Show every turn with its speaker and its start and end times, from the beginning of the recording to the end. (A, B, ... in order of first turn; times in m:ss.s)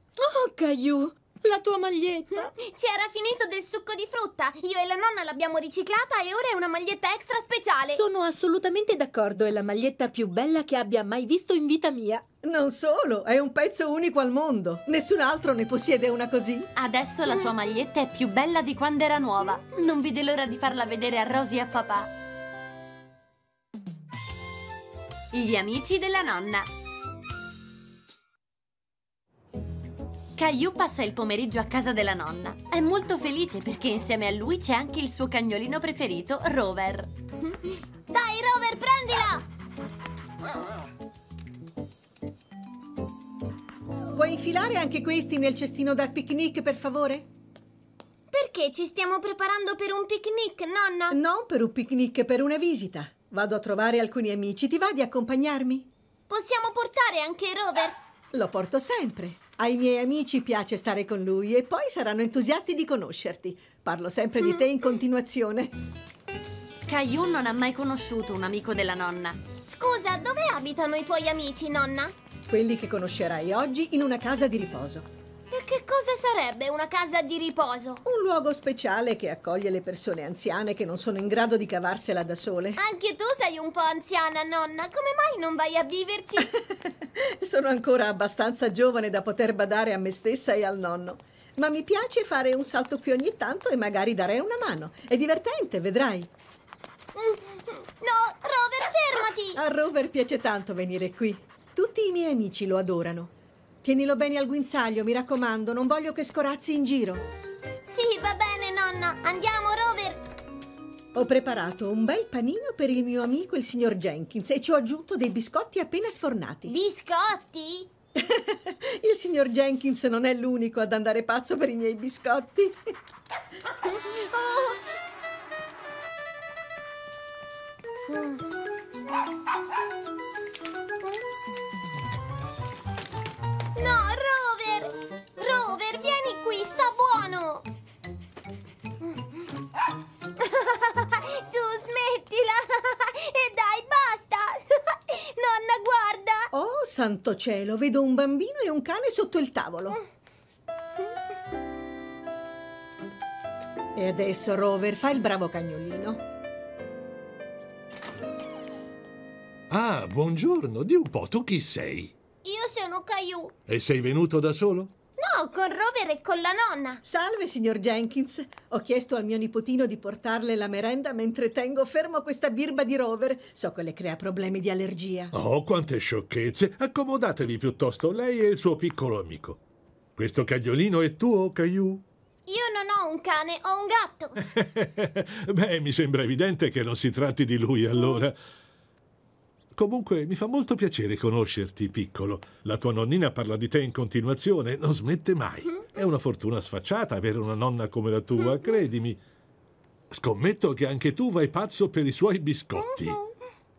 0:00.2-0:02.5 A
0:02.3-0:08.0 B
0:07.9-0:12.2 A
0:12.4-0:16.7 C
0:16.8-0:22.1 D
0:25.3-0:26.7 D
0:30.4-0:37.1 D
0:38.1-0:39.4 B
0:44.1-0:47.3 C
0:48.3-0:51.2 B
0:51.1-0:55.9 C
0:56.3-0:58.0 B
0:58.3-1:05.7 C
1:06.8-1:09.4 D
1:09.6-1:12.1 B
1:12.5-1:15.1 C
1:15.5-1:18.0 B
1:18.0-1:22.8 C
1:22.8-1:26.5 B
1:26.4-1:36.3 C
1:37.1-1:39.6 B
1:39.6-1:47.3 C
1:47.8-1:50.2 B
1:51.1-1:56.8 C
1:56.7-1:57.9 B
1:58.2-2:02.8 C
2:04.3-2:04.8 B
2:08.1-2:08.4 B
2:13.8-2:17.6 B
2:20.4-2:26.5 B
2:26.5-2:30.0 C
2:34.0-2:36.2 C
2:39.7-2:42.1 E
2:42.4-2:43.5 B
2:43.7-2:44.9 E
2:45.2-2:47.0 B
2:47.0-2:55.3 C
2:55.3-2:59.6 E
3:00.2-3:02.0 E
3:02.5-3:04.4 B
3:04.4-3:08.4 E
3:09.7-3:19.2 E
3:20.1-3:23.2 E
3:22.8-3:23.2 B